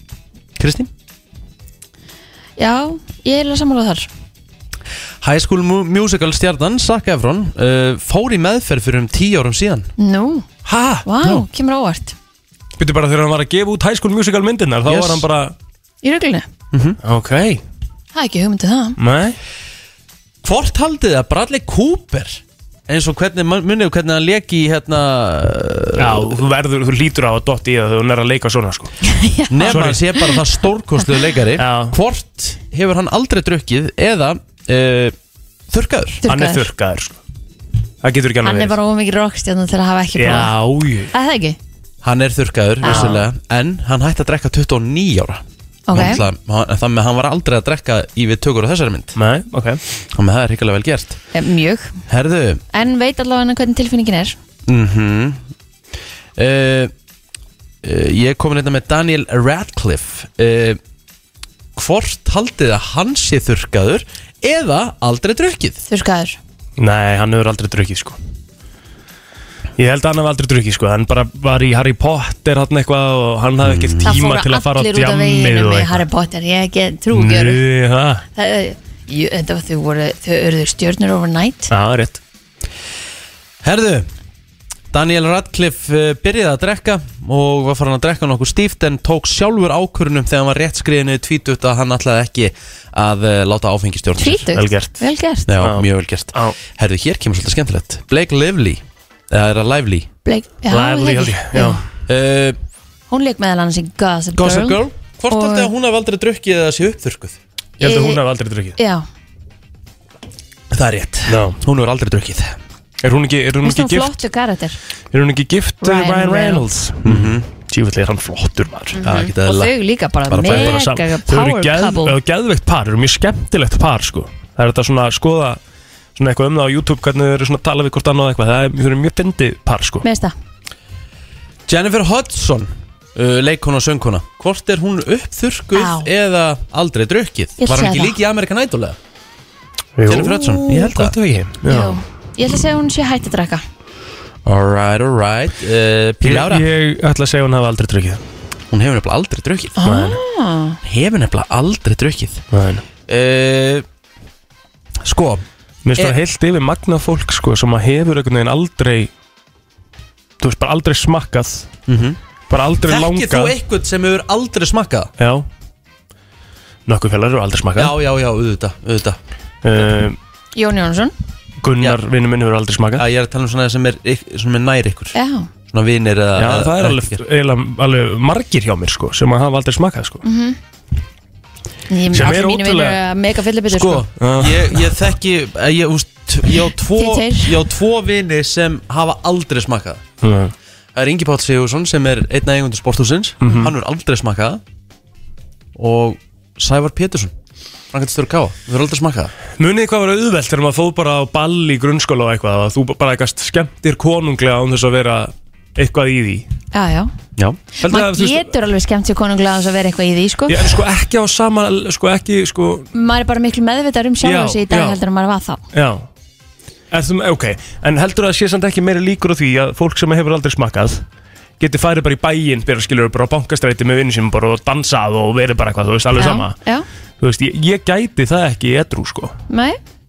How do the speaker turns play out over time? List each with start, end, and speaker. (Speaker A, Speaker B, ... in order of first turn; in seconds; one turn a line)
Speaker A: 0.6-0.9
Speaker B: 2.6-4.1
Speaker A: 5.2-9.9
Speaker B: 10.0-10.4
Speaker C: 10.7-11.1
Speaker B: 11.0-12.1
Speaker C: 12.8-15.5
Speaker A: 14.8-15.2
Speaker B: 16.0-16.5
Speaker A: 16.7-17.0
Speaker C: 17.0-17.6
Speaker B: 18.1-19.0
Speaker C: 19.0-19.4
Speaker A: 20.4-26.4
Speaker C: 26.0-28.9
Speaker B: 29.0-30.4
Speaker A: 29.5-35.1
Speaker C: 29.6-30.0
Speaker C: 31.6-31.9
Speaker A: 35.7-36.2
Speaker B: 36.2-36.7
Speaker C: 36.3-37.2
Speaker C: 38.0-38.8
Speaker B: 38.4-40.5
Speaker C: 40.1-41.1
Speaker B: 41.1-41.6
Speaker A: 42.0-49.1
Speaker B: 42.8-43.1
Speaker C: 42.8-43.2
Speaker B: 45.9-46.2
Speaker C: 49.1-49.8
Speaker A: 50.1-51.2
Speaker B: 51.3-52.0
Speaker A: 52.1-52.6
Speaker B: 52.7-54.4
Speaker A: 54.7-55.4
Speaker A: 56.4-56.9
Speaker A: 57.8-60.8
Speaker A: 61.7-65.8
Speaker B: 65.9-66.4
Speaker C: 66.8-68.2
Speaker C: 69.8-76.0
Speaker A: 73.6-74.2
Speaker B: 74.0-77.6
Speaker C: 77.1-78.2
Speaker B: 78.4-81.7
Speaker C: 81.7-82.2
Speaker A: 83.6-84.1
Speaker A: 84.9-94.5
Speaker B: 94.2-95.5
Speaker C: 94.5-95.0
Speaker A: 95.5-100.1
Speaker C: 95.6-96.5
Speaker B: 100.2-101.8
Speaker C: 100.7-101.8
Speaker A: 102.1-102.6
Speaker B: 103.1-105.7
Speaker A: 104.3-107.4
Speaker C: 107.8-108.8
Speaker B: 107.8-108.2
Speaker B: 108.8-109.0
Speaker A: 110.7-112.6
Speaker C: 111.3-111.6
Speaker C: 113.0-114.2
Speaker B: 113.6-114.8
Speaker C: 115.1-119.0
Speaker B: 115.8-116.6
Speaker A: 117.0-117.4
Speaker B: 118.9-122.2
Speaker A: 119.0-119.7
Speaker A: 120.3-120.9
Speaker C: 120.4-125.6
Speaker C: 126.2-130.1
Speaker B: 130.0-130.3
Speaker A: 131.7-139.0
Speaker B: 135.7-136.1
Speaker B: 137.6-138.2
Speaker C: 140.0-142.0
Speaker A: 140.1-141.1
Speaker B: 141.6-143.6
Speaker A: 144.4-146.7
Speaker C: 146.2-148.2
Speaker A: 148.7-149.8
Speaker B: 149.8-150.8
Speaker C: 149.9-150.2
Speaker A: 150.8-152.4
Speaker C: 152.5-152.8
Speaker A: 153.1-153.8
Speaker A: 155.0-155.4
Speaker C: 155.8-159.1
Speaker C: 160.4-161.7
Speaker A: 161.9-162.2
Speaker C: 162.5-163.5
Speaker A: 162.8-165.1
Speaker C: 165.2-165.4
Speaker C: 166.9-167.9
Speaker A: 167.8-169.2
Speaker C: 169.6-170.2
Speaker B: 170.6-171.1
Speaker C: 171.6-173.1
Speaker A: 172.9-175.2
Speaker B: 175.1-175.5
Speaker A: 175.7-177.2
Speaker C: 176.4-180.2
Speaker B: 180.2-180.6
Speaker B: 181.9-184.0
Speaker C: 182.1-183.0
Speaker A: 183.7-190.0
Speaker C: 184.2-184.9
Speaker B: 186.9-187.6
Speaker C: 190.2-190.5
Speaker A: 190.9-194.6
Speaker C: 193.4-193.7
Speaker A: 195.8-197.3
Speaker A: 197.9-199.3
Speaker C: 199.6-206.4
Speaker B: 206.7-207.1
Speaker A: 207.4-207.6
Speaker C: 207.8-208.5
Speaker B: 207.8-210.7
Speaker C: 210.5-212.9
Speaker B: 212.9-215.6
Speaker C: 214.2-215.0
Speaker C: 215.7-216.1
Speaker C: 216.9-221.0
Speaker C: 221.6-226.6
Speaker B: 226.2-226.9
Speaker C: 227.2-229.3
Speaker B: 229.5-229.8